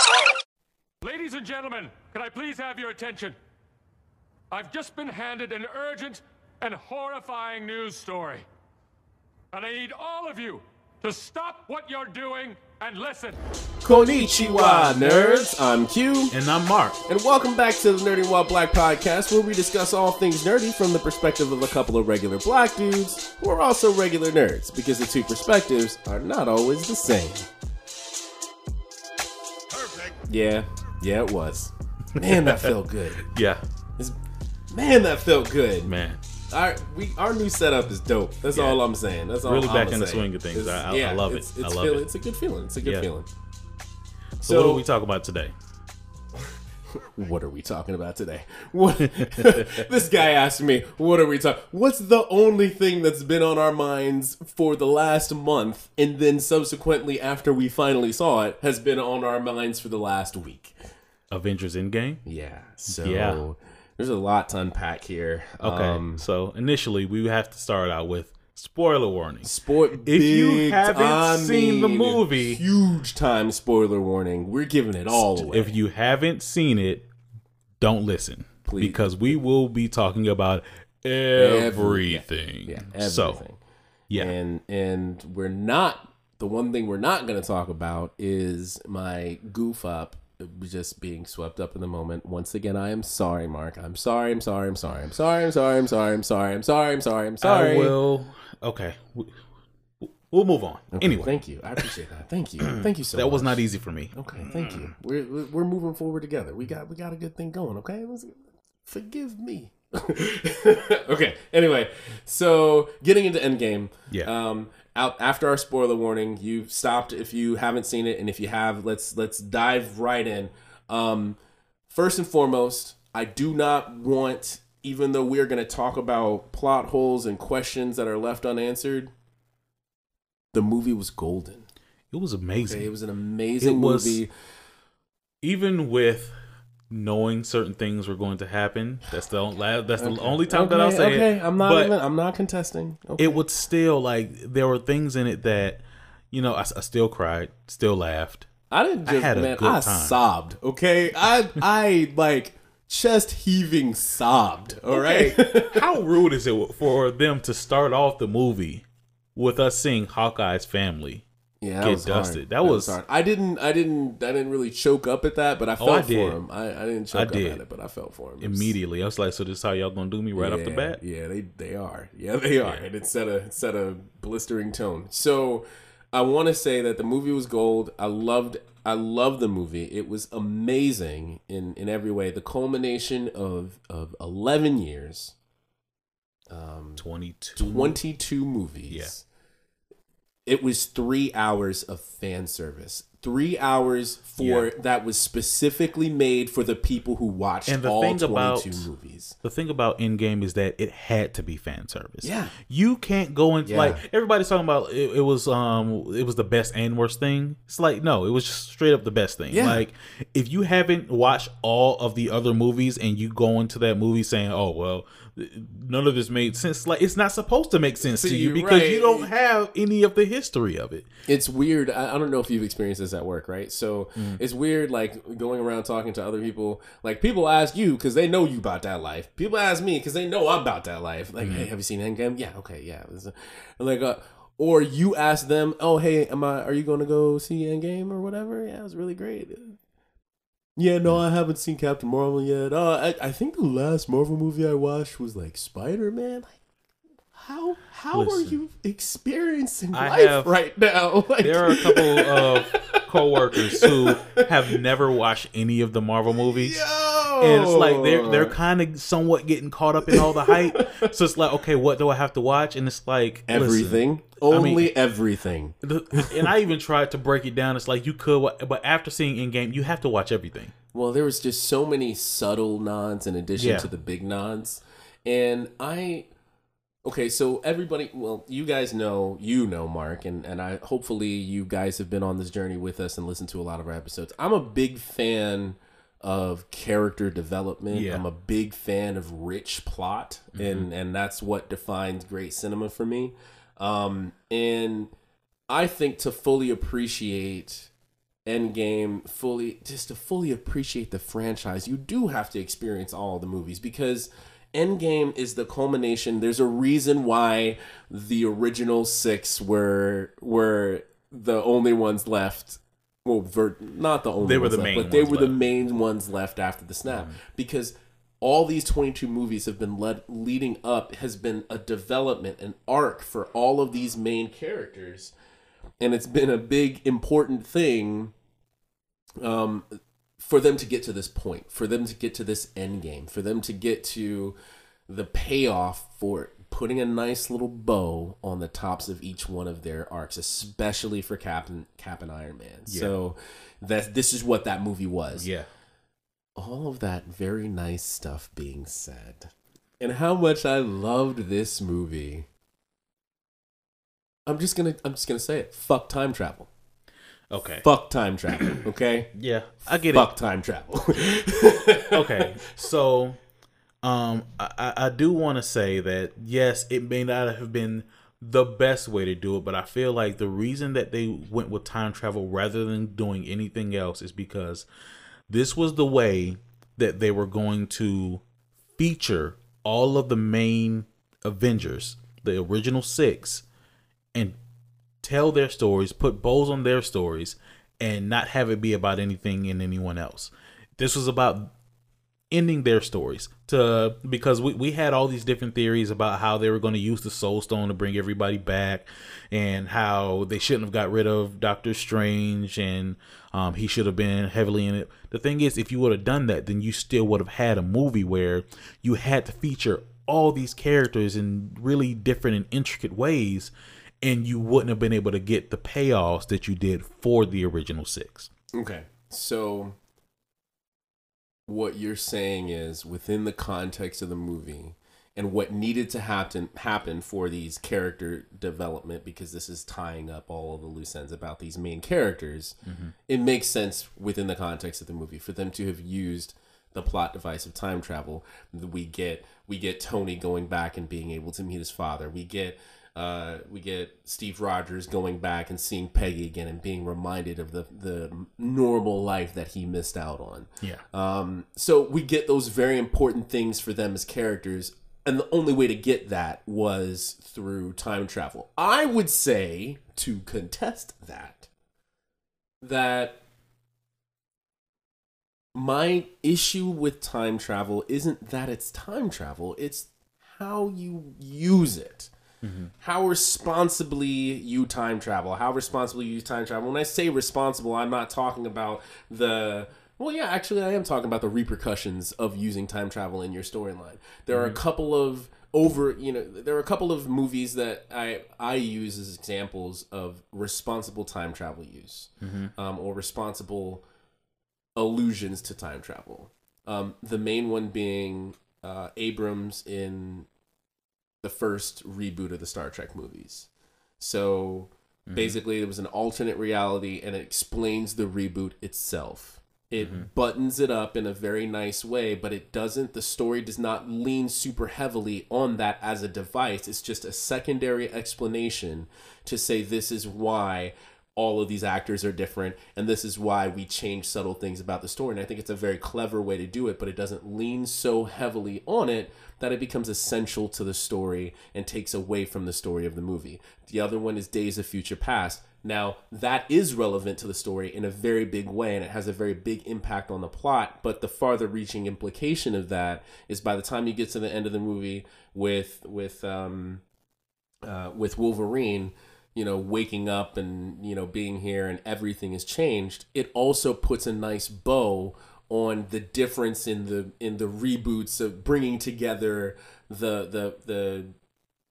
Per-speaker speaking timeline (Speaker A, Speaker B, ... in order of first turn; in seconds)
Speaker A: 1.0-3.4, 4.5-8.4, 9.5-13.4
Speaker B: 13.8-16.3, 17.1-27.5, 30.3-33.3, 34.7-35.9, 36.5-43.3, 44.4-44.9, 47.0-60.7, 62.2-66.2, 69.4-75.8, 78.7-79.2, 81.4-83.6, 84.2-98.0, 100.9-103.6, 104.2-129.1, 130.5-131.7, 132.6-134.3, 140.0-143.4, 148.7-155.8, 161.6-168.7, 170.4-185.4, 186.5-187.0, 187.6-189.2, 190.5-199.4, 202.2-202.5, 203.7-204.0, 209.5-209.8, 218.1-219.3, 221.3-239.8, 240.8-246.6, 247.3-254.8, 256.5-258.6, 260.1-261.1, 263.5-266.5, 270.9-276.3, 277.1-295.1, 295.7-297.9, 298.5-325.3, 326.0-328.3, 329.4-329.9, 330.4-334.6, 335.1-345.5, 346.6-352.5, 354.5-356.7, 357.8-359.3, 360.1-362.5, 418.8-420.0, 421.7-432.8, 433.3-461.7, 462.8-463.4, 465.7-472.3, 473.0-494.0, 495.0-500.5, 501.4-547.0, 547.9-561.3
Speaker C: 13.8-15.5, 16.3-17.0, 32.1-33.6, 35.9-36.2, 38.5-38.8, 39.4-42.1, 42.8-43.1, 44.4-45.5, 49.2-49.8, 61.3-62.2, 62.9-63.4, 65.6-69.5, 70.0-72.6, 75.1-77.1, 77.8-83.4, 84.1-84.3, 97.4-99.4, 100.0-101.9, 102.7-104.9, 132.1-132.9, 133.6-134.2, 135.4-136.3, 136.9-141.9, 143.2-148.5, 149.1-150.2, 154.9-161.2, 161.8-163.0, 165.8-166.4, 167.1-167.6, 168.4-171.0, 187.0-188.0, 194.4-194.7, 197.7-198.9, 199.4-221.1, 231.4-231.7, 248.1-248.6, 249.9-250.5, 251.4-256.8, 257.4-264.9, 265.8-270.7, 273.6-273.9, 287.9-288.2, 290.6-290.9, 314.4-315.6, 317.1-317.4, 342.9-343.2, 345.4-345.7, 357.5-357.9, 359.4-360.3, 362.1-363.4, 364.0-374.9, 375.5-378.4, 379.0-383.7, 385.2-391.7, 392.5-418.5, 432.9-433.1, 472.6-472.9, 484.5-484.8, 492.4-492.7, 505.3-505.6, 510.0-510.3